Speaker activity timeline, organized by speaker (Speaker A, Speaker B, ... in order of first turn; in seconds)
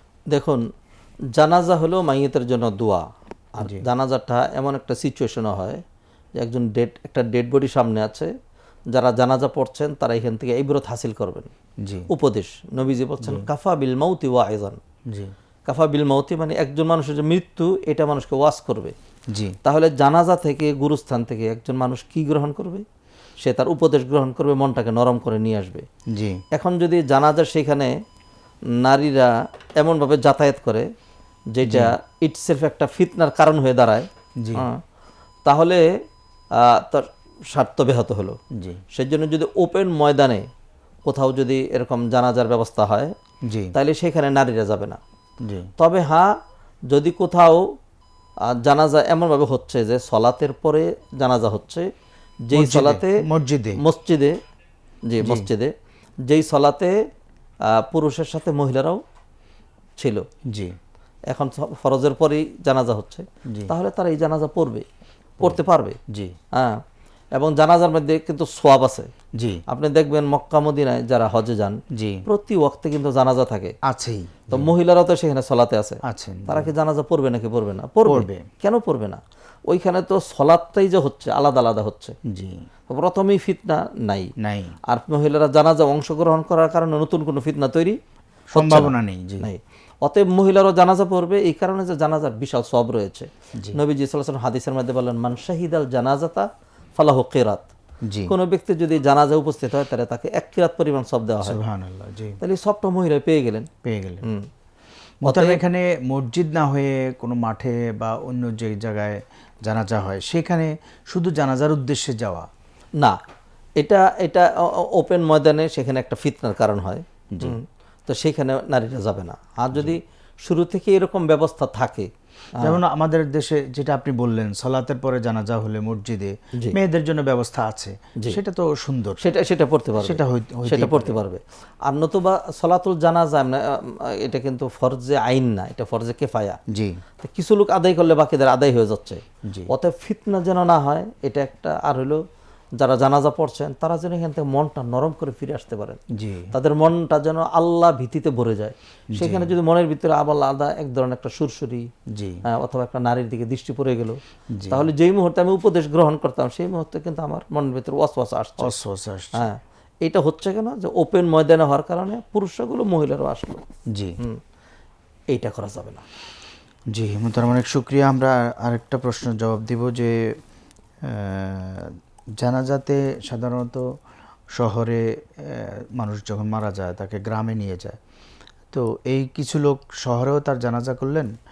Speaker A: 0.3-0.7, 1.3-3.0, 3.6-5.8, 6.4-8.3, 8.9-11.5, 12.1-14.8, 15.7-18.9, 19.6-22.9, 23.4-25.9, 26.5-27.9, 28.8-30.9, 31.5-34.8, 35.5-35.9, 36.5-38.4, 38.9-40.5, 41.0-43.1, 43.7-45.0, 45.8-46.3, 46.9-47.6, 48.5-51.9, 52.5-53.2, 53.8-54.4, 55.1-55.7, 56.3-57.0, 57.7-59.0, 60.0-60.3, 61.3-64.8, 65.4-66.0, 66.5-66.8, 67.3-69.1, 69.7-73.8, 74.5-82.2, 82.9-84.3, 84.9-88.0, 88.5-97.7, 98.3-101.6, 102.4-103.7, 104.2-104.5, 105.2-105.6, 113.8-122.8, 129.2-136.6, 137.2-142.2, 142.8-146.0, 146.5-151.9, 152.5-158.8, 159.3-163.6, 165.3-166.0
Speaker B: 11.8-12.1, 13.2-13.5, 26.1-26.4, 31.6-31.9, 34.4-34.7, 43.5-43.8, 45.4-45.7, 52.5-53.8, 55.2-55.5, 65.4-66.3, 71.9-72.2, 73.9-74.7, 76.1-76.7, 78.1-78.5, 82.3-82.6, 84.4-84.8, 88.5-89.5, 98.1-98.3, 101.4-102.4, 103.8-104.3, 105.2-112.5, 117.3-117.6, 122.6-129.2, 130.0-131.2, 136.7-137.0, 146.2-146.5, 149.1-149.6, 152.1-152.4, 154.6-154.9, 158.6-159.5, 166.9-170.3, 171.1-173.8, 174.6-178.0, 178.7-181.3